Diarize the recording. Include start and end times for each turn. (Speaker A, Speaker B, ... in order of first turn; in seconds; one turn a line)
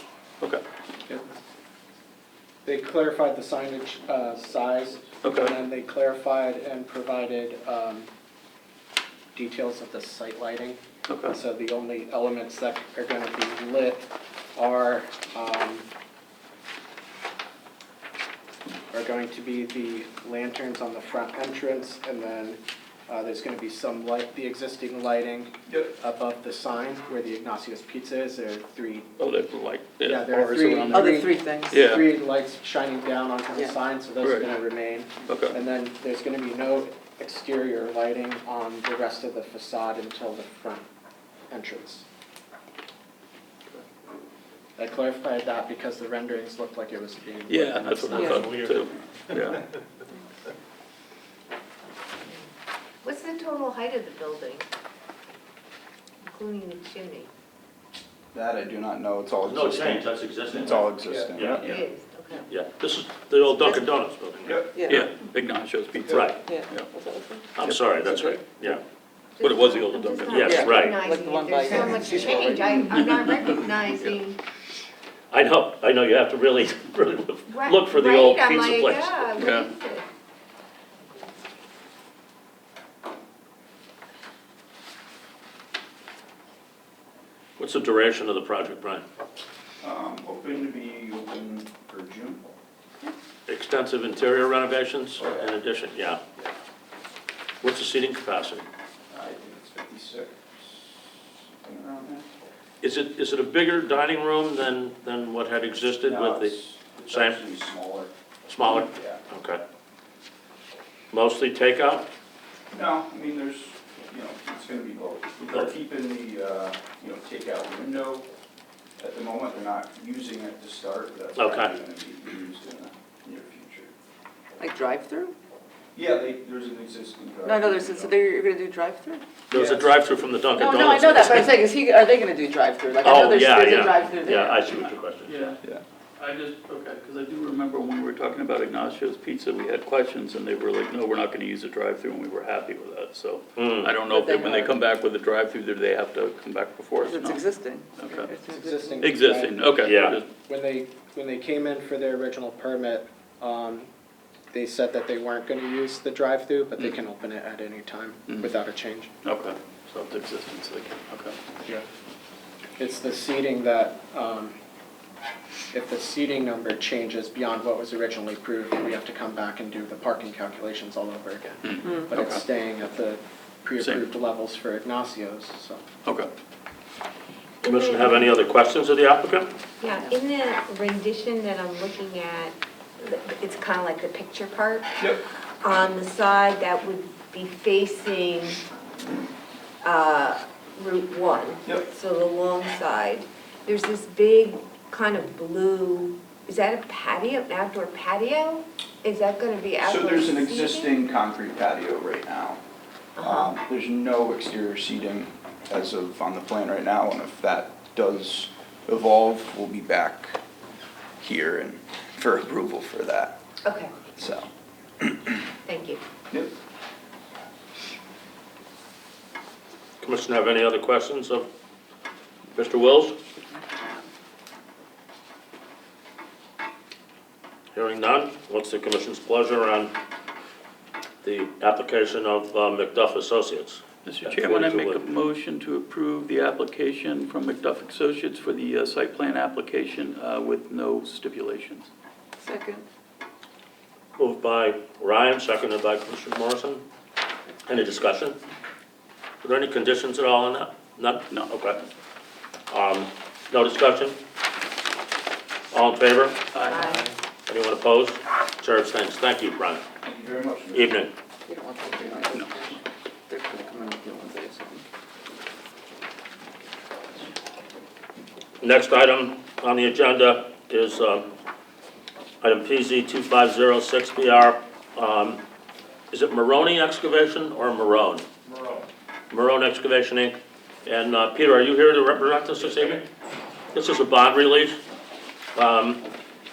Speaker A: 2.6-8.1
Speaker B: 5.2-5.6
Speaker A: 9.3-15.9
Speaker B: 11.1-11.4
Speaker A: 18.9-29.1
Speaker B: 29.2-32.1
Speaker A: 30.1-40.8
Speaker C: 30.9-31.9
Speaker B: 34.2-34.5
Speaker B: 35.2-35.6
Speaker A: 41.5-42.0
Speaker A: 44.8-48.2
Speaker B: 47.5-49.6
Speaker C: 48.1-48.5
Speaker D: 48.2-48.7
Speaker E: 53.0-54.6
Speaker E: 56.3-57.3
Speaker F: 58.3-61.6
Speaker D: 59.4-61.9
Speaker E: 61.4-62.5
Speaker D: 62.5-64.6
Speaker E: 63.5-63.8
Speaker F: 64.4-64.8
Speaker C: 64.7-65.1
Speaker B: 64.9-66.9
Speaker D: 66.1-66.4
Speaker C: 66.5-68.4
Speaker D: 67.5-68.8
Speaker E: 69.3-74.4
Speaker B: 69.4-70.7
Speaker D: 70.3-71.0
Speaker C: 70.3-73.0
Speaker D: 75.3-79.3
Speaker E: 77.5-80.1
Speaker B: 79.4-79.7
Speaker D: 87.6-89.0
Speaker F: 89.8-92.4
Speaker D: 93.5-96.2
Speaker F: 95.2-95.5
Speaker D: 97.6-98.7
Speaker F: 99.1-101.1
Speaker F: 101.6-102.2
Speaker D: 102.8-107.4
Speaker F: 106.1-108.1
Speaker D: 108.5-109.6
Speaker F: 108.7-109.2
Speaker D: 111.1-112.1
Speaker F: 112.7-118.3
Speaker D: 115.4-115.7
Speaker F: 119.0-123.9
Speaker D: 121.3-121.7
Speaker C: 124.6-125.3
Speaker F: 125.9-128.2
Speaker C: 127.4-129.2
Speaker D: 129.5-131.6
Speaker F: 129.5-129.9
Speaker C: 130.5-134.8
Speaker D: 133.0-135.4
Speaker B: 135.2-135.6
Speaker B: 136.2-148.3
Speaker D: 143.6-143.9
Speaker C: 144.1-144.7
Speaker C: 147.0-149.2
Speaker A: 148.5-149.8
Speaker B: 149.0-150.3
Speaker D: 149.8-150.2
Speaker A: 150.4-153.9
Speaker A: 154.5-159.1
Speaker B: 158.3-158.5
Speaker B: 159.2-161.4
Speaker A: 162.8-164.6
Speaker A: 165.7-175.8
Speaker B: 171.6-172.4
Speaker B: 173.8-174.1
Speaker B: 176.0-176.3
Speaker E: 177.6-178.3
Speaker D: 177.6-179.5
Speaker E: 179.8-185.0
Speaker E: 185.6-188.6
Speaker E: 189.8-200.9
Speaker F: 199.8-202.6
Speaker E: 203.2-203.5
Speaker F: 203.2-210.4
Speaker F: 211.2-213.4
Speaker E: 213.6-214.0
Speaker F: 214.1-214.5
Speaker F: 215.0-215.3
Speaker E: 215.6-216.0
Speaker D: 220.0-221.5
Speaker D: 222.5-223.2
Speaker D: 227.7-229.9
Speaker D: 231.2-235.0
Speaker B: 234.0-241.9
Speaker C: 242.4-242.8
Speaker D: 244.2-246.8
Speaker D: 247.7-248.4
Speaker D: 249.4-251.8
Speaker B: 251.3-251.6
Speaker D: 252.7-254.2
Speaker D: 255.7-256.4
Speaker B: 256.5-257.1
Speaker E: 256.6-257.0
Speaker D: 257.5-259.8
Speaker F: 260.0-260.9
Speaker D: 260.7-261.1
Speaker C: 261.4-264.8
Speaker B: 262.3-262.7
Speaker D: 268.6-271.3
Speaker D: 272.4-275.4
Speaker D: 276.1-278.3
Speaker D: 279.3-283.0
Speaker D: 283.7-284.8
Speaker D: 285.5-286.0